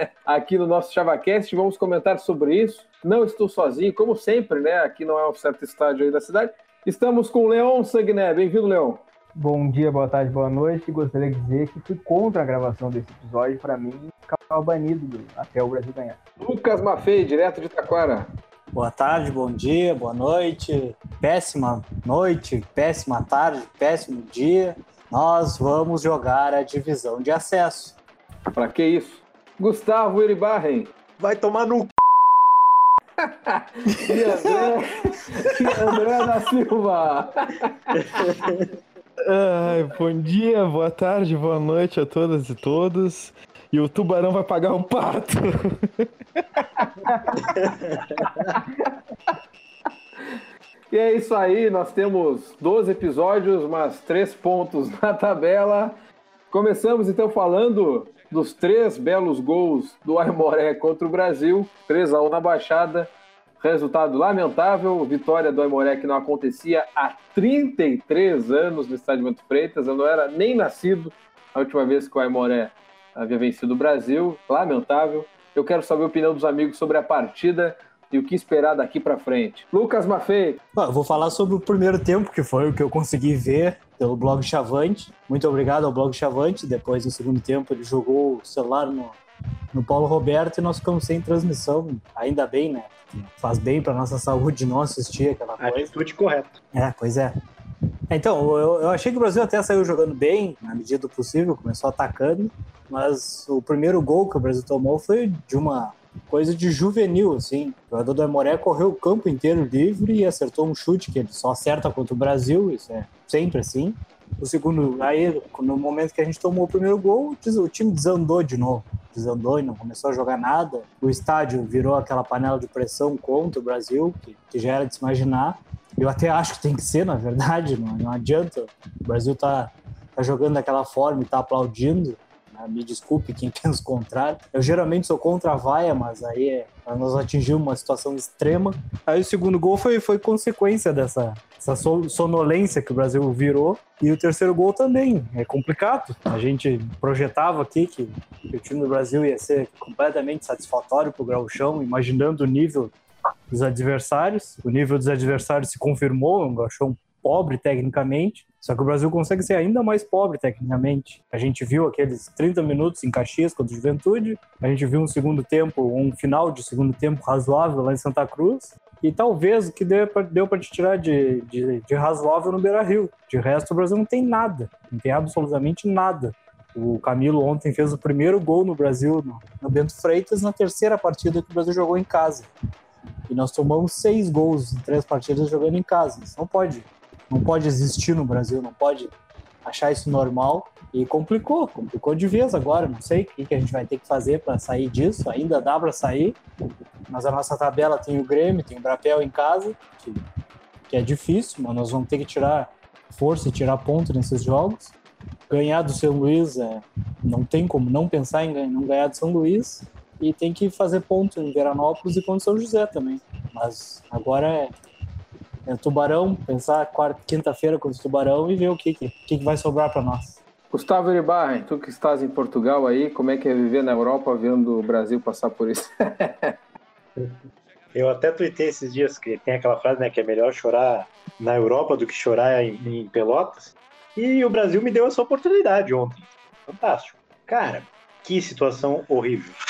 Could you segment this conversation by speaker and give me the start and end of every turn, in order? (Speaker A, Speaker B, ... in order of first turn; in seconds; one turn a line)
Speaker A: 0.2-9.0
Speaker B: 9.4-16.2
Speaker A: 16.4-18.3
Speaker C: 18.8-28.0
Speaker A: 28.6-30.9
Speaker D: 31.2-31.9
Speaker A: 33.2-38.5
Speaker E: 39.2-46.6
Speaker D: 47.6-48.4
Speaker A: 50.9-56.0
Speaker A: 56.5-80.6
Speaker C: 80.8-89.2
Speaker C: 89.7-95.9
Speaker D: 95.6-96.6
Speaker C: 96.7-97.3
Speaker C: 98.1-152.9
Speaker C: 153.5-182.5
Speaker C: 183.3-189.1
Speaker C: 189.7-196.4
Speaker C: 197.1-200.2
Speaker C: 200.9-204.9
Speaker C: 205.5-214.7
Speaker C: 215.7-220.4
Speaker A: 220.7-226.5
Speaker D: 227.9-239.6